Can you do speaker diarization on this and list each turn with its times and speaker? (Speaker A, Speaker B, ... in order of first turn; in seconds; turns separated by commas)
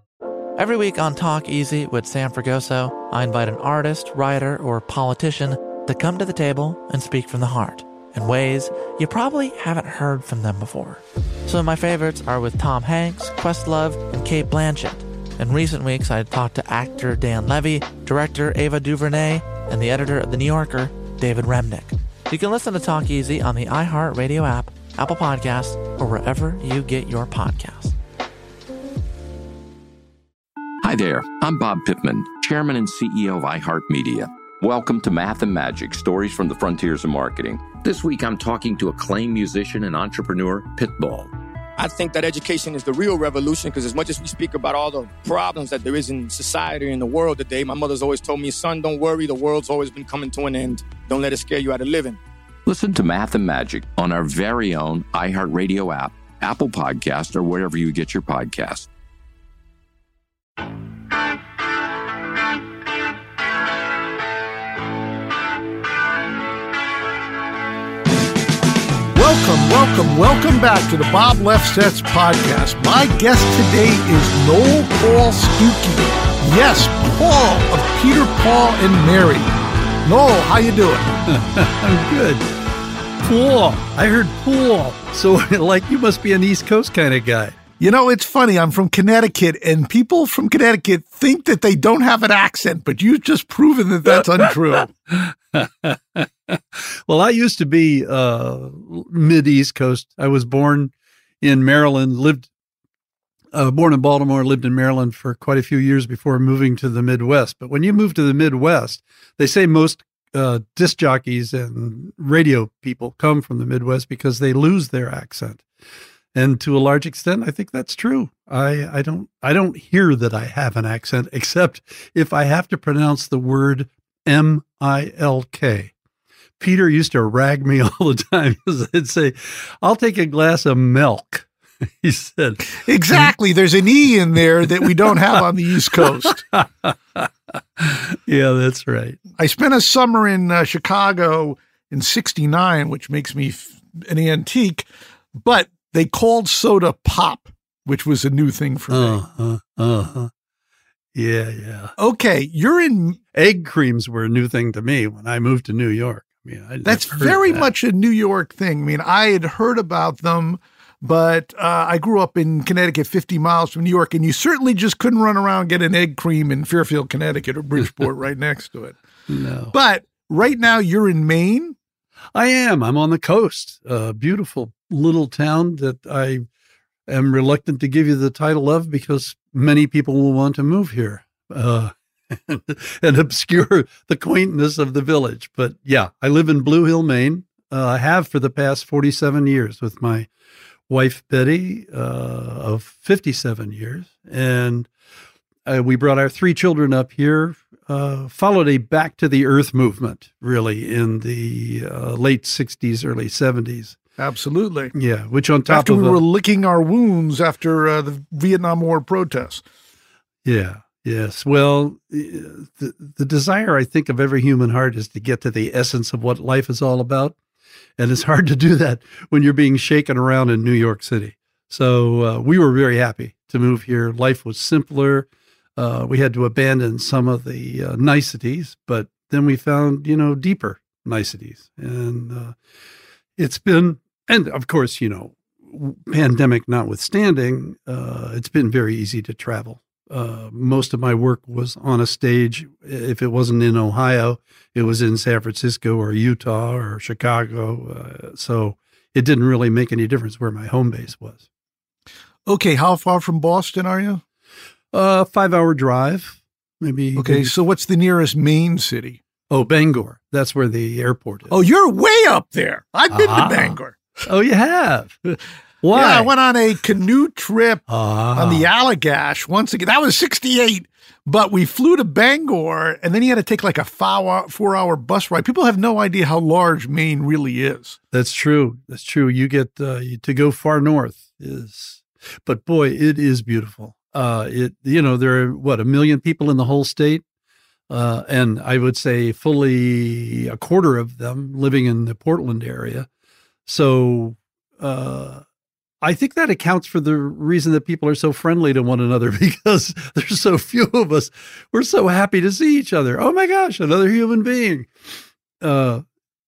Speaker A: 0.6-27.9, Speaker B: 30.8-41.3, Speaker C: 41.8-52.2, Speaker B: 52.6-58.9, Speaker D: 69.1-79.5, Speaker D: 80.0-81.1, Speaker E: 81.3-82.5, Speaker E: 83.2-87.5, Speaker D: 87.8-94.9, Speaker E: 94.2-102.5, Speaker E: 103.5-115.6, Speaker E: 116.3-125.9, Speaker E: 126.6-131.5, Speaker E: 132.0-133.3, Speaker D: 132.8-136.4, Speaker E: 134.8-135.4, Speaker E: 135.9-139.2, Speaker D: 139.4-149.2, Speaker E: 148.9-150.3, Speaker E: 151.1-151.9, Speaker D: 152.0-153.2, Speaker E: 153.3-157.7, Speaker D: 156.8-168.9, Speaker E: 169.3-169.8, Speaker D: 169.7-171.8, Speaker E: 172.3-176.4, Speaker E: 177.1-190.3, Speaker E: 190.9-194.9, Speaker E: 195.7-204.0, Speaker D: 204.2-204.9, Speaker E: 204.9-206.2, Speaker D: 205.7-209.6, Speaker E: 210.4-217.4, Speaker E: 218.0-232.5, Speaker E: 233.4-251.5, Speaker D: 252.4-254.2, Speaker E: 254.9-257.5, Speaker D: 257.1-259.2, Speaker E: 259.5-261.5, Speaker D: 261.5-264.0, Speaker E: 263.1-266.3, Speaker D: 265.9-267.8, Speaker E: 267.9-268.7, Speaker D: 268.3-278.0, Speaker E: 278.1-287.2, Speaker E: 287.9-293.1, Speaker E: 293.6-295.4, Speaker E: 296.0-304.9, Speaker E: 305.6-306.0